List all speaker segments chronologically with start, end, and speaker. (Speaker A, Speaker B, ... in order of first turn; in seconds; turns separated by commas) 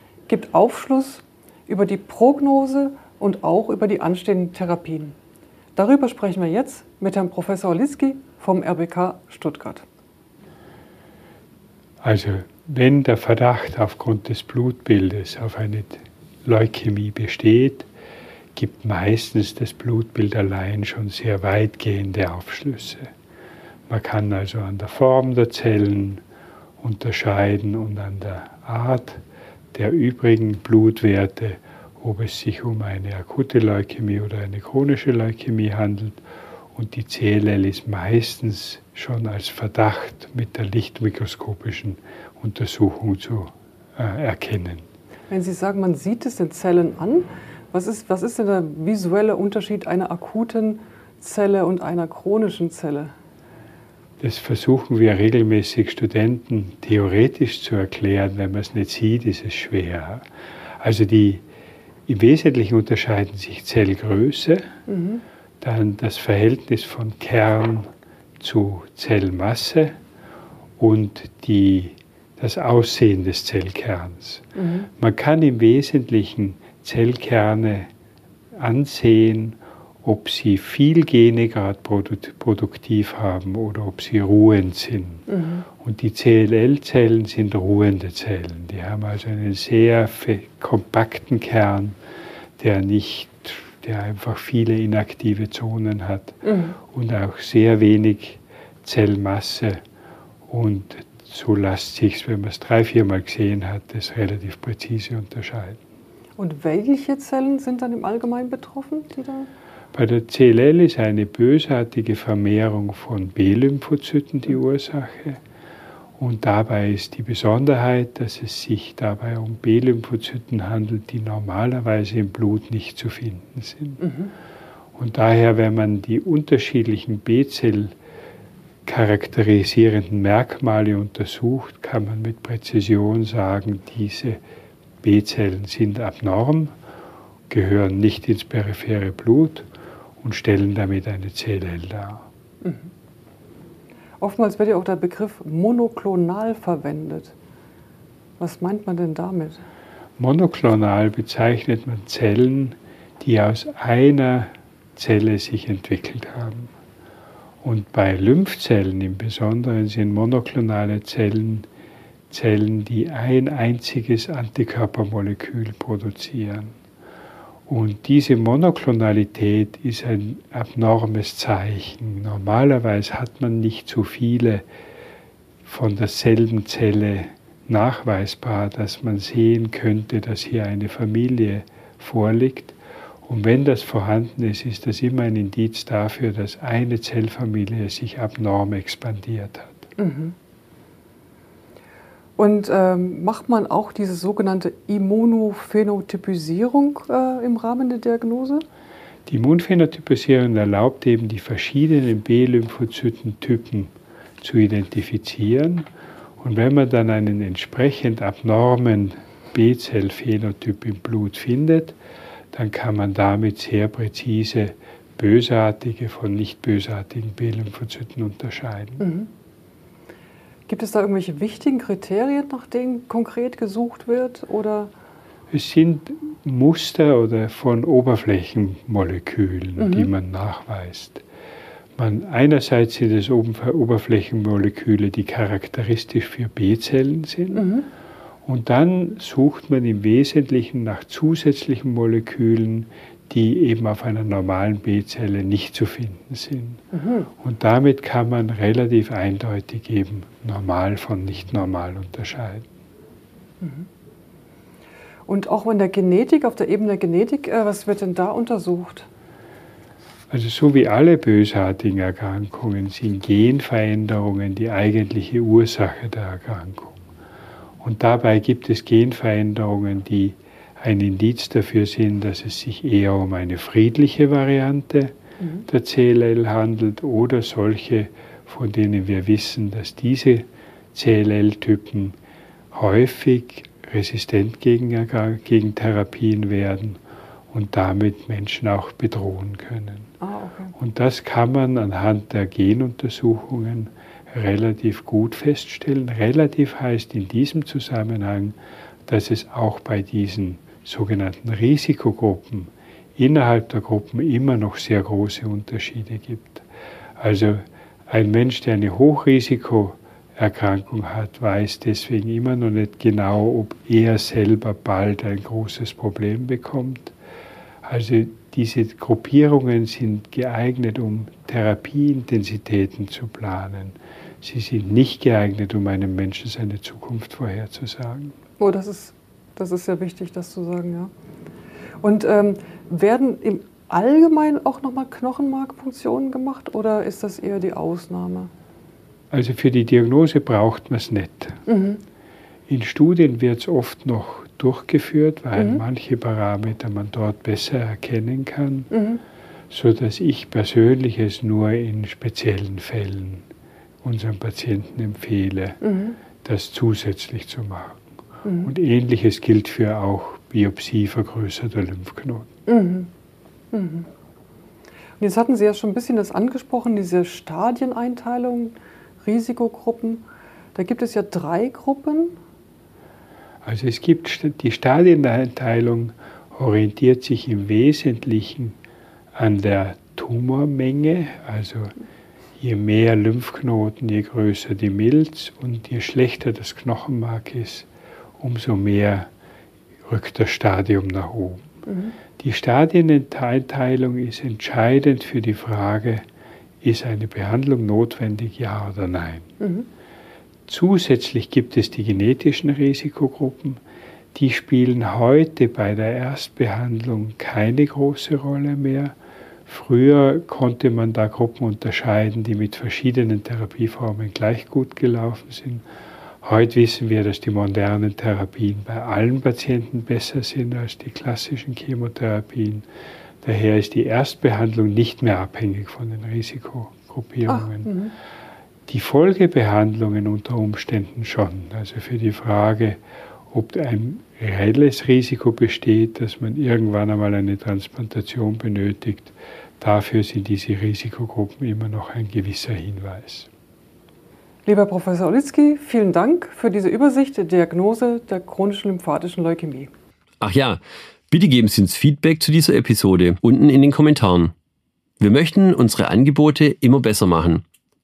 Speaker A: 0.3-5.2, Speaker A: 5.7-9.8, Speaker B: 12.0-17.9, Speaker B: 18.5-23.1, Speaker B: 23.9-26.2, Speaker B: 26.8-29.2, Speaker B: 29.7-44.8, Speaker A: 45.3-53.1, Speaker B: 54.2-60.2, Speaker B: 60.8-61.4, Speaker B: 62.1-64.7, Speaker A: 64.9-65.2, Speaker B: 65.6-69.9, Speaker B: 70.8-77.9, Speaker A: 74.6-74.9, Speaker B: 78.5-92.0, Speaker A: 85.3-85.6, Speaker B: 92.6-99.8, Speaker A: 96.4-96.8, Speaker B: 100.5-105.8, Speaker A: 106.4-109.5, Speaker B: 109.9-115.4, Speaker B: 116.2-124.0, Speaker A: 124.0-124.3, Speaker B: 124.9-127.9, Speaker B: 128.8-134.4, Speaker B: 135.0-136.7, Speaker B: 137.5-139.7, Speaker B: 140.2-142.2, Speaker A: 142.6-142.9, Speaker A: 144.2-147.3, Speaker A: 148.4-149.6, Speaker B: 150.2-156.7, Speaker B: 157.6-161.7, Speaker B: 162.3-166.8, Speaker B: 167.7-174.6, Speaker B: 175.6-189.9, Speaker A: 190.0-190.3, Speaker A: 192.4-198.6, Speaker B: 199.2-212.0, Speaker B: 212.5-219.1, Speaker A: 219.0-219.3, Speaker A: 220.7-224.9, Speaker B: 225.5-231.2, Speaker A: 229.8-230.1, Speaker B: 232.0-237.7, Speaker A: 237.5-237.9, Speaker B: 238.4-246.8, Speaker A: 246.9-247.3, Speaker B: 247.4-252.7, Speaker A: 253.6-253.9, Speaker A: 255.3-259.1, Speaker B: 260.3-267.0, Speaker B: 267.8-282.1, Speaker B: 282.7-287.0, Speaker B: 287.5-290.1, Speaker A: 290.2-290.7, Speaker B: 290.7-298.6, Speaker B: 299.1-306.6, Speaker B: 307.2-317.1, Speaker B: 317.8-328.4, Speaker A: 328.6-331.1, Speaker A: 332.0-338.5, Speaker B: 339.3-341.6, Speaker A: 341.7-342.0, Speaker B: 342.7-348.9, Speaker A: 345.6-345.8, Speaker A: 348.9-349.2, Speaker B: 349.7-353.5, Speaker B: 354.0-355.8, Speaker A: 355.8-356.2, Speaker B: 356.4-358.0, Speaker A: 358.4-358.7, Speaker B: 358.6-362.5, Speaker A: 362.7-363.1, Speaker A: 363.7-364.1, Speaker A: 365.2-372.4, Speaker B: 373.6-378.8, Speaker B: 379.3-381.9, Speaker B: 382.6-389.3, Speaker B: 390.0-391.7, Speaker A: 391.9-392.1, Speaker B: 392.4-396.2, Speaker B: 396.8-399.5, Speaker A: 399.6-399.9, Speaker B: 400.7-403.8, Speaker B: 404.3-409.1, Speaker B: 409.7-415.8, Speaker B: 416.4-422.9, Speaker B: 423.4-427.9, Speaker A: 427.5-428.1, Speaker B: 428.9-433.0, Speaker B: 433.5-443.5, Speaker A: 444.6-449.9, Speaker C: 450.4-450.8, Speaker C: 451.3-454.5, Speaker C: 455.2-457.6